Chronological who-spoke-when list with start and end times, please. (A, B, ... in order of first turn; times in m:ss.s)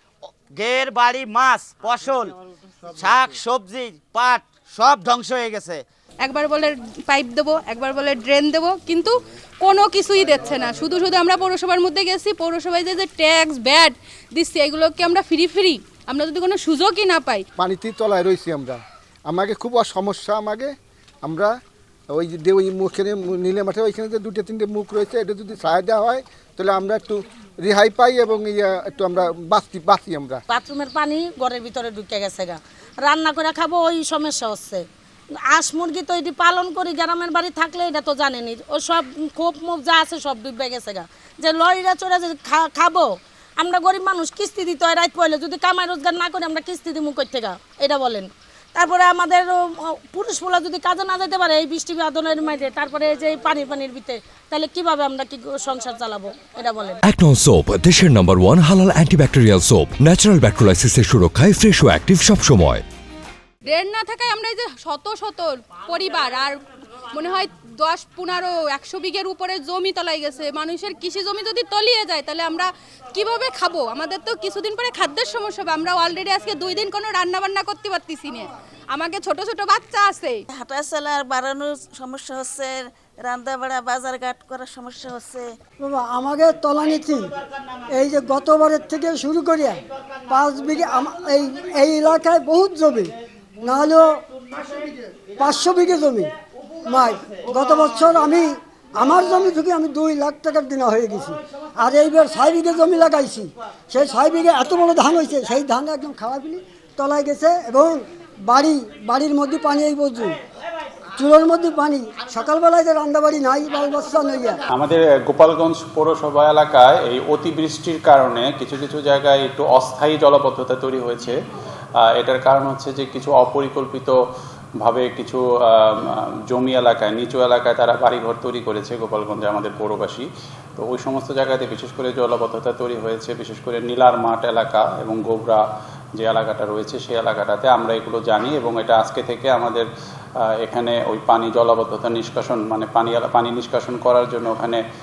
0:00.5-0:02.4 A
0:02.9-0:05.8 A
0:06.2-0:17.4 B
0:17.6-0:20.7 C
0:21.2-0:21.5 C
0:22.1-0:30.4 C
0:30.5-0:34.8 D
0:35.5-0:43.1 D
0:43.6-0:57.0 D
0:57.0-1:02.8 E
1:03.6-1:06.6 B
1:07.1-1:20.4 B
1:20.6-1:25.5 F
1:25.8-1:27.4 G
1:27.9-1:34.1 G
1:35.4-1:36.3 G
1:36.9-1:50.4 G
1:51.2-1:54.6 G
1:54.7-2:01.4 H
2:02.2-2:04.2 H
2:04.8-2:15.6 H
2:16.2-2:19.9 H
2:20.6-2:24.8 H